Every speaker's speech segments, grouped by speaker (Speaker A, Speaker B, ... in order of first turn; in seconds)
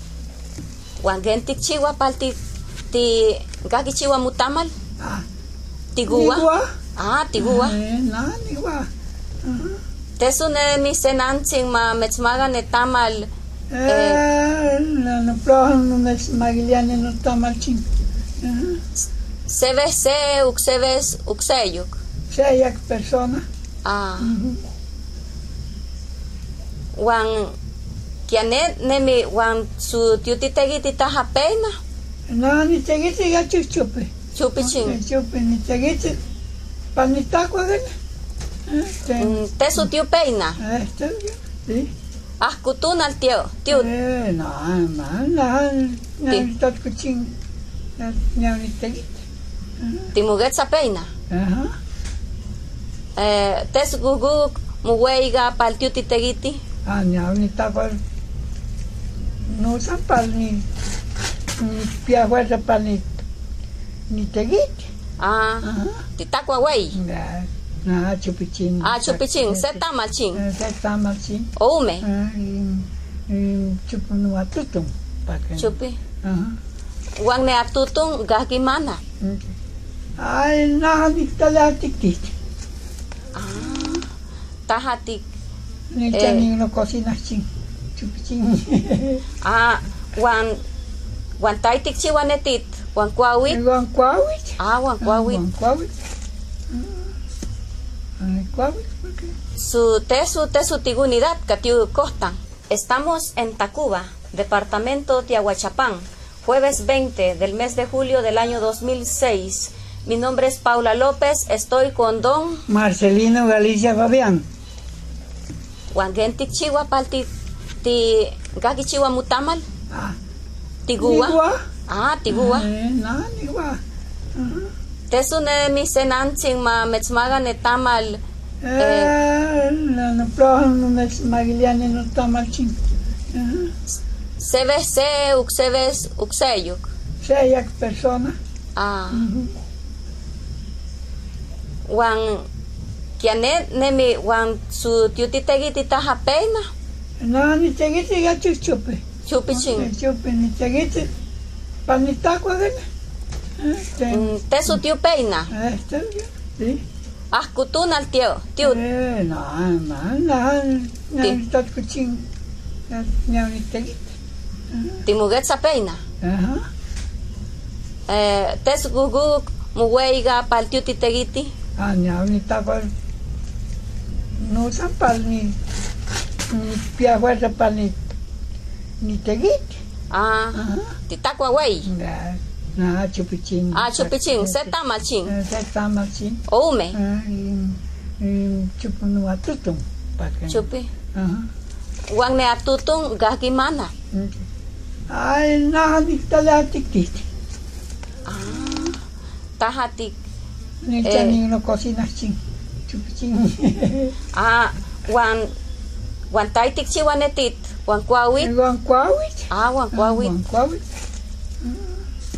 Speaker A: 1.0-2.4, 2.9-4.7, 5.9-7.8, 10.2-13.3, 13.8-14.2, 19.5-21.9, 23.8-24.4, 26.9-27.5, 28.3-31.8, 34.3-35.0, 39.2-40.6, 42.4-43.9, 50.1-51.1, 53.1-56.6, 65.2-67.0, 68.8-70.4, 71.5-72.0, 75.6-76.0, 77.2-79.0, 83.3-84.1, 84.7-85.2, 86.1-86.5, 89.4-90.6, 91.4-93.6, 94.6-95.4, 99.5-112.6, 115.9-117.3, 117.8-119.6, 120.8-122.7, 125.1-128.2, 128.8-129.1, 134.4-136.8, 138.8-139.3, 141.9-142.5, 143.2-146.7, 149.2-149.9, 154.1-155.5, 157.3-158.8, 165.1-166.0, 168.1-171.5, 180.1-181.9, 183.7-185.3, 186.5-187.0, 190.5-190.9, 192.1-193.9, 198.2-199.0, 199.6-200.2, 201.0-201.4, 204.3-205.5, 206.3-208.5, 209.5-210.3
Speaker B: 5.0-5.2, 6.1-6.7, 7.4-8.9, 9.4-9.8, 13.7-17.8, 18.4-18.8, 22.3-23.4, 24.2-24.6, 32.3-36.2, 36.9-37.9, 38.7-39.9, 40.6-41.9, 43.7-47.3, 48.0-49.2, 49.8-50.1, 51.3-51.7, 56.9-58.0, 59.5-60.6, 61.6-63.1, 64.1-64.9, 65.6-66.0, 66.9-69.8, 70.3-71.5, 72.0-76.5, 79.2-79.5, 80.2-82.3, 85.9-89.2, 93.5-96.0, 96.7-97.0, 98.2-99.3, 112.7-114.5, 119.9-120.2, 121.0-121.6, 122.3-123.8, 124.3-124.7, 128.6-132.8, 133.3-133.7, 137.2-138.3, 139.1-139.5, 147.2-151.1, 151.9-152.8, 153.6-154.8, 155.5-156.8, 158.6-162.2, 162.9-164.2, 164.7-165.0, 166.2-166.6, 171.8-172.9, 174.4-175.6, 176.5-177.9, 179.0-179.8, 180.5-180.9, 181.8-184.7, 185.3-186.4, 186.9-191.5, 195.1-197.2, 200.8-202.4, 202.9-204.1, 208.4-210.9, 211.6-211.9